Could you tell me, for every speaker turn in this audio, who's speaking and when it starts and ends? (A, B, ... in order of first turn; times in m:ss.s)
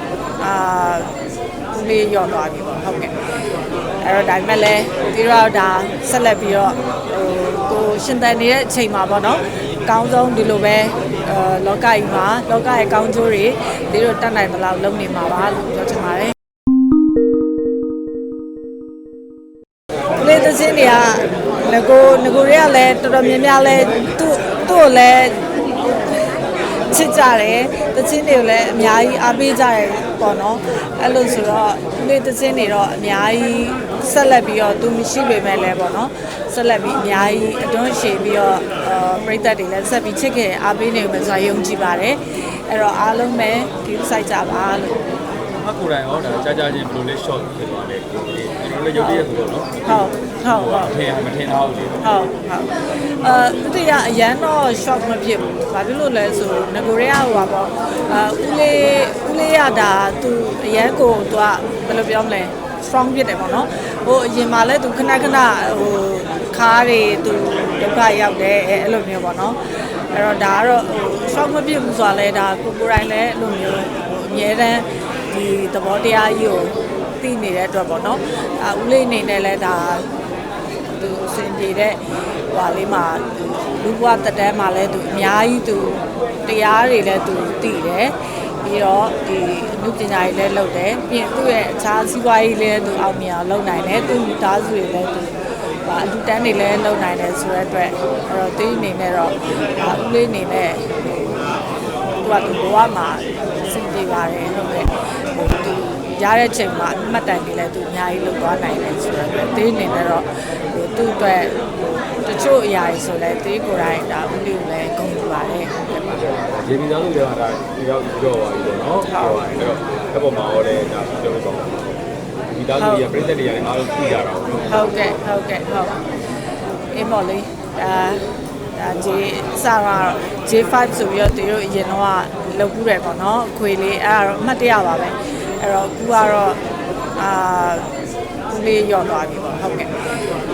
0:00.4-0:01.1 A
0:01.7-0:03.2 A
0:04.0-0:16.4 A
0:20.2-0:25.4 A
0:26.8-0:45.1 A
0:45.5-0:52.0 B
0:49.0-0:49.3 A
0:49.8-0:50.9 A
0:52.0-1:09.6 A
1:10.1-1:20.1 A
1:21.0-1:41.5 A
1:42.2-1:56.4 A
1:56.3-2:01.9 B
1:59.1-1:59.4 A
2:02.5-2:04.9 B
2:02.8-2:03.0 A
2:04.7-2:06.0 A
2:06.9-2:16.6 A
2:17.2-2:17.9 A
2:18.5-2:19.9 A